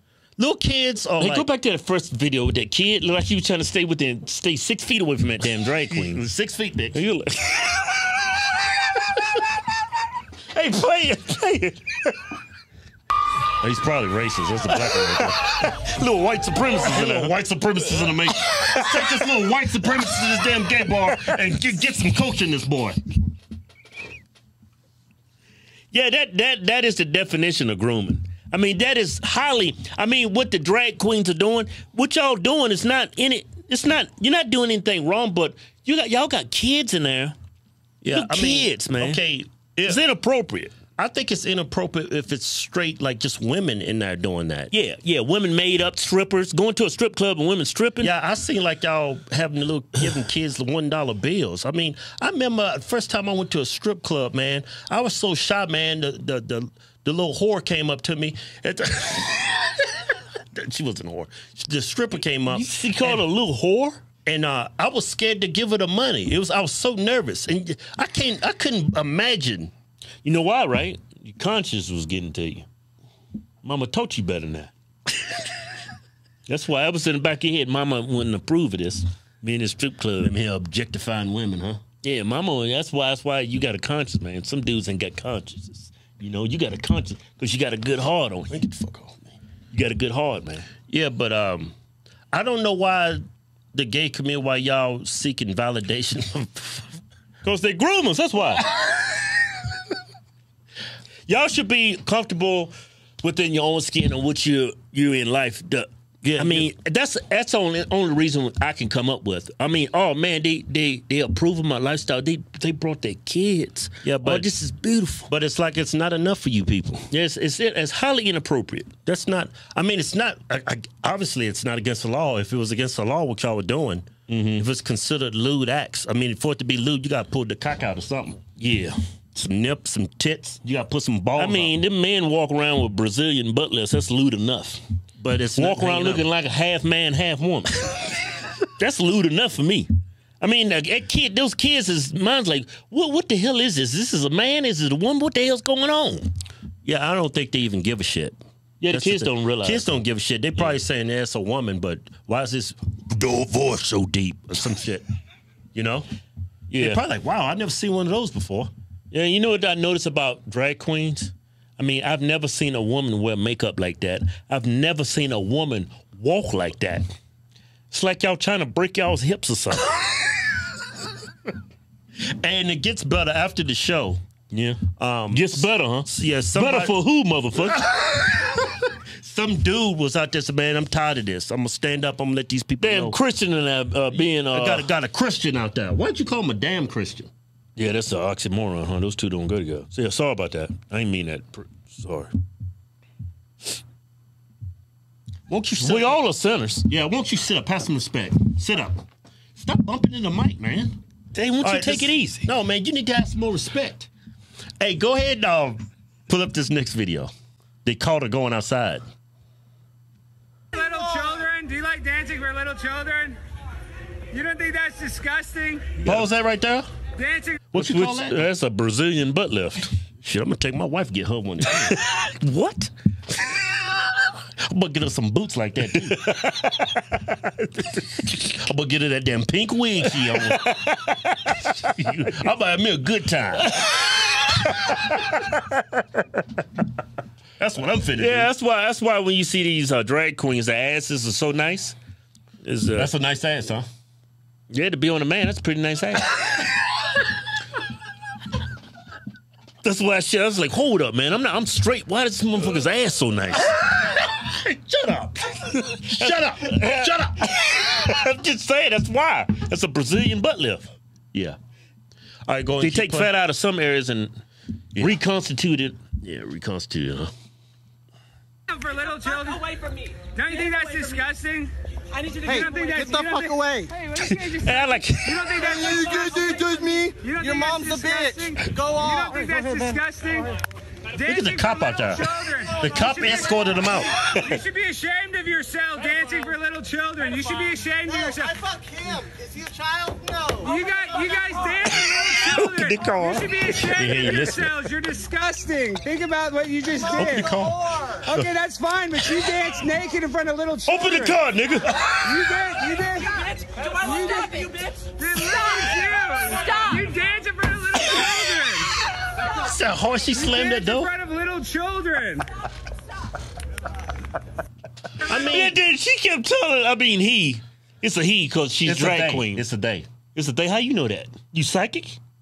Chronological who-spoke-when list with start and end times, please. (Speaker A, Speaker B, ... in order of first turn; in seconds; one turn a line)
Speaker A: 0.4-1.5
Speaker B: 1.2-6.2
Speaker A: 5.9-7.0
Speaker B: 6.9-9.6
Speaker B: 10.5-12.1
Speaker A: 13.6-15.7
Speaker B: 14.7-17.3
Speaker A: 16.7-23.0
Speaker B: 17.9-19.3
Speaker B: 25.9-37.3
Speaker A: 38.0-40.0
Speaker B: 38.1-39.2
Speaker B: 39.8-40.8
Speaker A: 41.0-44.7
Speaker B: 44.7-48.1
Speaker A: 48.0-63.2
Speaker B: 62.5-64.0
Speaker A: 64.2-69.7
Speaker B: 70.2-72.7
Speaker B: 73.6-74.7
Speaker B: 76.5-80.3
Speaker A: 80.2-81.8
Speaker B: 82.0-88.5
Speaker A: 88.5-89.3
Speaker B: 89.7-90.7
Speaker A: 90.9-91.7
Speaker A: 92.3-97.0
Speaker B: 97.4-99.0
Speaker B: 101.3-115.3
Speaker A: 106.2-106.7
Speaker A: 114.0-114.5
Speaker A: 115.3-117.1
Speaker B: 117.1-118.9
Speaker A: 119.0-128.4
Speaker B: 124.3-124.6
Speaker B: 128.6-129.0
Speaker A: 129.3-131.7
Speaker B: 131.3-134.8
Speaker A: 135.2-136.2
Speaker B: 135.6-138.1
Speaker B: 138.8-139.9
Speaker B: 140.4-146.3
Speaker A: 146.8-148.3
Speaker B: 148.8-149.8
Speaker A: 148.9-155.0
Speaker A: 155.7-156.1
Speaker B: 156.7-157.0
Speaker A: 156.8-158.7
Speaker B: 159.1-167.0
Speaker B: 167.9-170.0
Speaker A: 172.3-174.2
Speaker B: 174.5-177.9
Speaker A: 175.0-177.0
Speaker A: 177.6-183.2
Speaker B: 182.8-184.9
Speaker A: 184.5-187.3
Speaker B: 187.8-192.3
Speaker A: 195.5-196.2
Speaker B: 195.8-196.9
Speaker A: 196.8-201.0
Speaker B: 201.3-202.5
Speaker A: 201.6-204.1
Speaker A: 204.8-207.3
Speaker A: 207.8-209.0
Speaker C: 210.7-213.4
Speaker C: 214.3-215.9
Speaker A: 216.0-216.9
Speaker C: 217.2-217.6
Speaker A: 217.7-218.4
Speaker B: 217.7-219.9
Speaker A: 220.2-222.0
Speaker B: 221.7-222.9
Speaker A: 224.1-226.2
Speaker B: 225.9-228.1
Speaker A: 228.1-230.7
Speaker B: 230.0-231.9
Speaker A: 231.8-233.7
Speaker B: 233.7-236.2
Speaker A: 237.6-238.5
Speaker B: 238.2-241.9
Speaker B: 242.6-243.1
Speaker A: 242.9-243.8
Speaker B: 244.7-246.9
Speaker B: 249.8-253.7
Speaker A: 253.7-257.5
Speaker B: 255.8-260.9
Speaker A: 262.5-263.3
Speaker B: 262.8-264.3
Speaker B: 264.9-266.0
Speaker A: 266.2-267.3
Speaker C: 268.7-271.7
Speaker D: 272.3-274.0
Speaker C: 272.5-280.6
Speaker B: 274.2-275.6
Speaker D: 275.7-279.9
Speaker C: 281.2-283.0
Speaker A: 281.2-284.2
Speaker B: 284.3-284.6
Speaker C: 284.4-288.5
Speaker D: 288.1-290.8
Speaker C: 290.6-297.6
Speaker B: 292.0-294.8
Speaker A: 294.2-294.5
Speaker A: 297.1-297.8
Speaker D: 297.2-298.2
Speaker C: 298.3-301.4
Speaker B: 300.9-302.1
Speaker C: 302.2-308.9
Speaker A: 309.4-311.1
Speaker C: 310.5-312.5
Speaker A: 315.2-315.8
Speaker B: 315.2-319.6
Speaker A: 318.8-320.1
Speaker B: 320.3-322.2